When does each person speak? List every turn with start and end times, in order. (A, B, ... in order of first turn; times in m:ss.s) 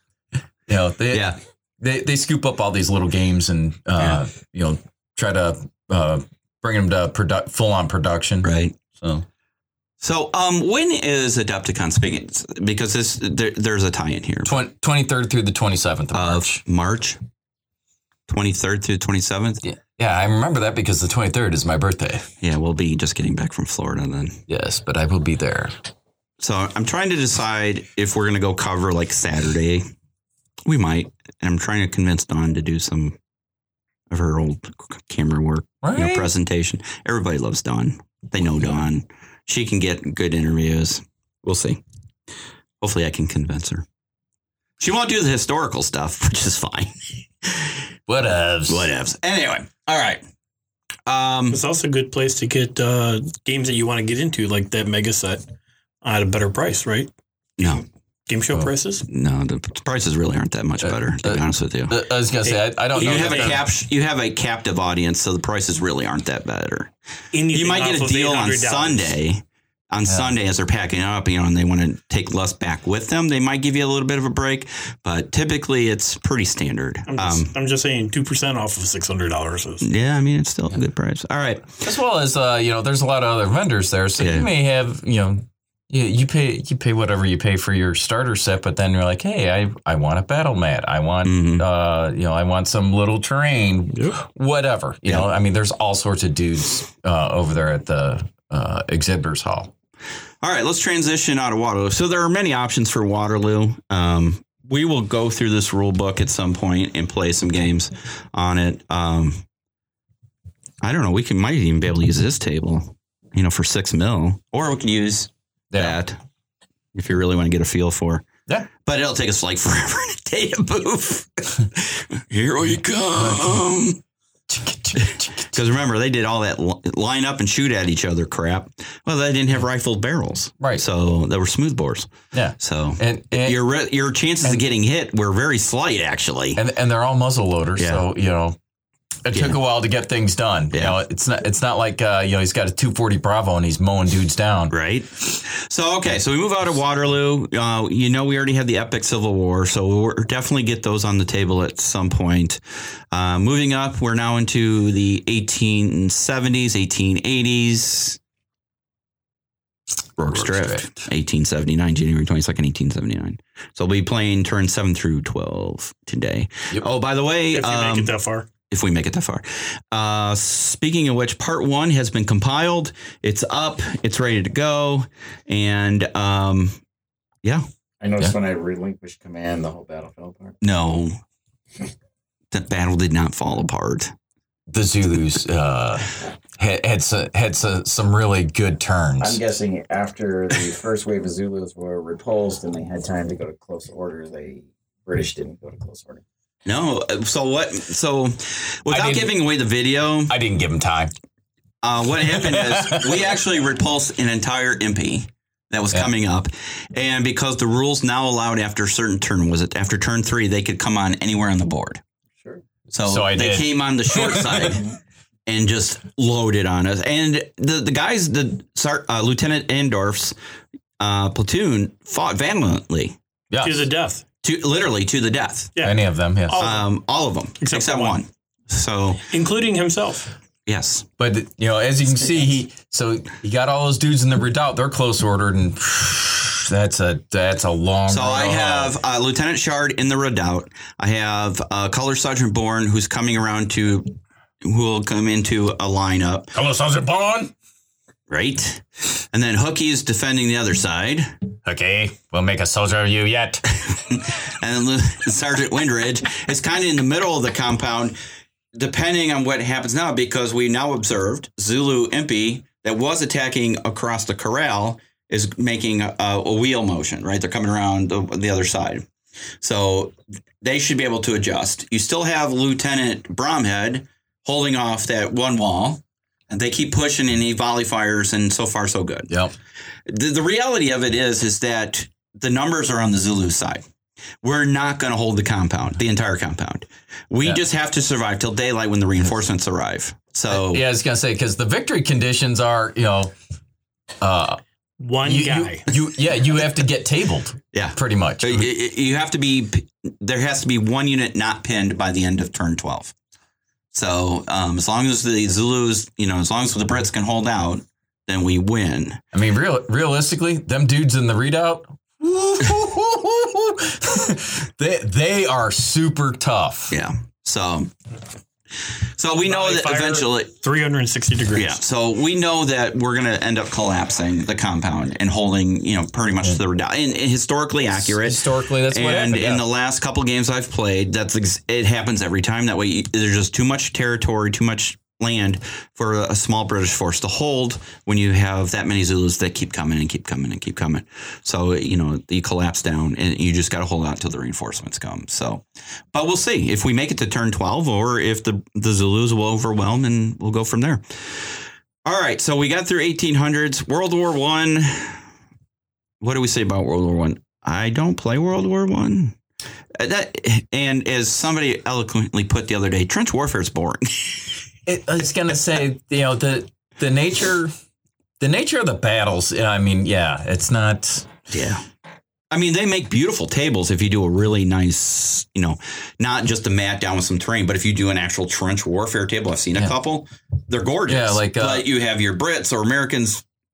0:00.7-0:09.2 A
0:01.1-0:01.4 B
0:08.4-0:08.7 B
0:10.0-0:14.6 B
0:14.4-0:16.6 A
0:16.1-0:17.2 B
0:18.3-0:19.6 B
0:19.6-0:22.3 A
0:22.4-0:24.4 B
0:24.5-0:25.7 A
0:26.4-0:29.9 B
0:30.6-0:33.2 B
0:34.1-0:41.8 B
0:35.8-0:36.3 A
0:42.8-0:43.8 B
0:44.8-0:46.9 B
0:47.4-0:47.7 B
0:48.1-0:48.9 A
0:48.7-0:50.2 B
0:51.1-0:51.6 B
0:51.5-0:55.4 C
0:56.0-0:57.1 C
0:57.6-0:57.8 B
0:58.3-0:59.0 C
0:59.1-1:02.0 B
1:00.8-1:03.6 A
1:02.4-1:03.6 C
1:03.0-1:06.9 B
1:07.3-1:09.2 C
1:07.5-1:17.5 B
1:10.0-1:10.3 A
1:17.1-1:19.9 C
1:19.8-1:21.8 B
1:21.8-1:39.7 A
1:24.2-1:24.5 B
1:31.2-1:31.6 B
1:40.4-1:49.4 B
1:50.8-1:56.2 B
1:55.7-1:56.0 A
1:56.9-1:58.3 B
1:58.8-2:04.0 B
2:03.1-2:03.6 A
2:04.5-2:05.6 A
2:05.0-2:16.6 B
2:10.6-2:10.8 A
2:12.3-2:13.6 A
2:16.6-2:18.6 A
2:17.8-2:18.0 B
2:19.2-2:24.7 A
2:20.7-2:21.0 B
2:24.7-2:32.6 B
2:33.1-2:38.2 B
2:40.2-2:48.1 B
2:40.2-2:41.1 A
2:47.5-2:48.5 C
2:48.7-2:56.8 B
2:58.0-3:00.6 D
3:00.6-3:01.2 B
3:02.5-3:04.1 B
3:04.7-3:09.4 A
3:09.2-3:16.2 D
3:16.6-3:20.3 B
3:18.9-3:19.4 A
3:20.3-3:21.1 A
3:21.8-3:32.0 B
3:22.2-3:23.4 A
3:32.9-3:34.8 B
3:33.0-3:34.8 A
3:35.5-3:40.4 B
3:41.0-3:43.2 B
3:43.5-3:43.9 A
3:43.6-3:44.2 C
3:44.4-3:45.7 B
3:45.7-3:46.9 C
3:45.8-3:46.7 A
3:46.6-3:49.2 B
3:47.6-3:48.2 C
3:49.3-3:50.3 C
3:50.7-3:51.0 B
3:51.2-3:59.0 A
3:58.1-4:06.5 B
4:06.5-4:07.5 A
4:08.3-4:11.3 B
4:11.6-4:13.6 A
4:13.9-4:18.2 B
4:18.7-4:29.0 B
4:29.6-4:39.3 B
4:39.3-4:39.5 A
4:40.0-4:43.8 B
4:44.4-4:50.8 B
4:50.5-4:53.3 A
4:54.2-4:54.6 A
4:55.0-4:55.9 C
4:55.2-4:58.7 A
4:57.7-5:03.1 B
5:03.9-5:09.2 B
5:09.3-5:16.9 A
5:16.9-5:17.9 B
5:19.2-5:20.5 B
5:19.4-5:21.8 C
5:21.5-5:51.4 B
5:27.9-5:29.6 A
5:52.0-5:55.2 B
5:56.2-5:59.4 B
5:59.9-6:04.5 B
6:04.8-6:07.7 A
6:08.4-6:11.3 A
6:11.5-6:11.8 B
6:12.5-6:23.4 B
6:21.1-6:21.9 A